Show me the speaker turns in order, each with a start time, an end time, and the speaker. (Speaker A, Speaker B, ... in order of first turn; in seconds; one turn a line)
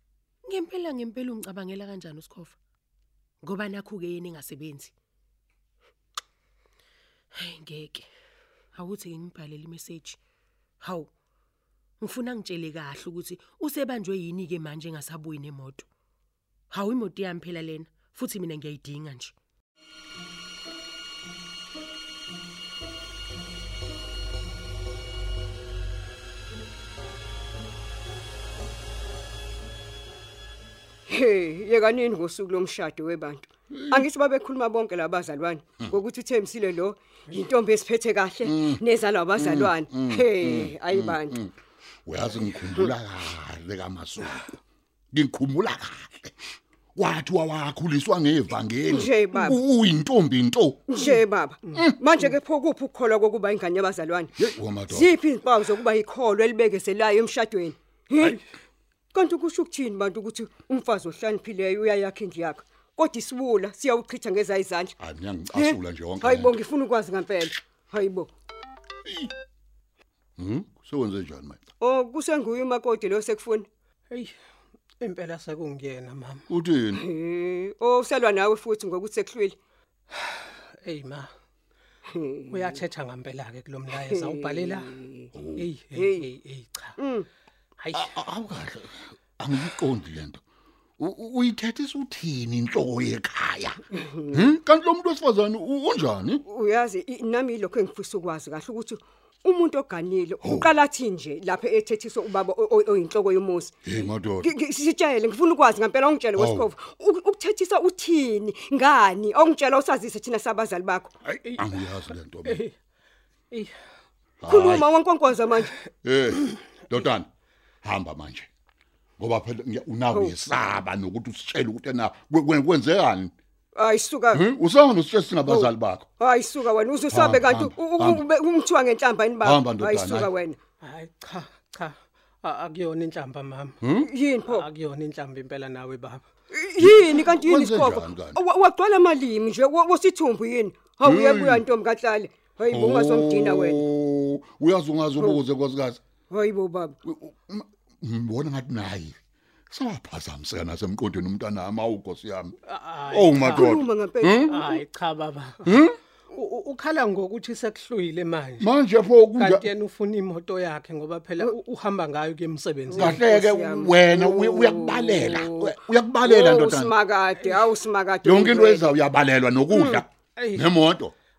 Speaker A: 0.5-2.6
Speaker A: 3.4-4.9
Speaker A: 7.3-8.1
Speaker A: 8.7-10.2
Speaker A: 10.8-11.1
Speaker A: 12.0-15.9
Speaker A: 16.7-19.4
Speaker B: 31.1-41.4
Speaker C: 38.5-38.8
Speaker C: 39.4-41.5
Speaker C: 42.1-44.6
Speaker C: 45.1-46.3
Speaker C: 47.0-50.9
Speaker B: 48.9-49.6
Speaker B: 50.9-54.4
Speaker C: 54.4-55.1
Speaker B: 54.9-58.4
Speaker B: 59.1-65.0
Speaker C: 65.0-66.5
Speaker B: 65.5-68.3
Speaker C: 69.1-69.3
Speaker C: 70.4-71.6
Speaker B: 71.8-73.7
Speaker D: 75.0-76.5
Speaker C: 76.5-77.0
Speaker B: 76.9-79.6
Speaker D: 80.1-81.3
Speaker B: 82.1-82.8
Speaker D: 82.5-84.9
Speaker B: 84.0-85.4
Speaker C: 85.3-85.7
Speaker D: 85.6-87.0
Speaker B: 85.9-86.3
Speaker B: 87.0-87.3
Speaker D: 87.8-88.1
Speaker C: 87.9-90.4
Speaker C: 91.0-96.4
Speaker B: 93.9-94.5
Speaker B: 96.5-111.1
Speaker C: 100.4-100.7
Speaker C: 103.9-104.5
Speaker C: 106.4-106.7
Speaker C: 111.2-112.6
Speaker D: 112.5-112.7
Speaker C: 114.4-114.9
Speaker B: 114.5-115.7
Speaker C: 116.0-117.3
Speaker C: 117.8-118.5
Speaker C: 119.2-123.3
Speaker B: 123.8-124.5
Speaker C: 124.3-126.1
Speaker B: 125.5-130.6
Speaker C: 127.1-128.2
Speaker C: 129.4-130.3
Speaker D: 130.8-133.8
Speaker C: 133.8-134.1
Speaker B: 133.9-134.7
Speaker D: 134.5-136.3
Speaker B: 136.5-143.8
Speaker C: 136.8-138.4
Speaker C: 141.1-141.7
Speaker C: 142.7-146.0
Speaker B: 146.3-147.0
Speaker C: 147.1-149.2
Speaker C: 149.7-152.6
Speaker D: 152.7-153.7
Speaker C: 153.1-154.6
Speaker B: 153.4-154.8
Speaker D: 154.5-158.7
Speaker C: 155.7-156.0
Speaker C: 158.6-159.7
Speaker D: 159.4-163.2
Speaker B: 162.9-169.0
Speaker C: 162.9-166.9
Speaker D: 167.4-167.7
Speaker C: 168.2-171.1
Speaker B: 169.7-170.0
Speaker D: 170.4-170.7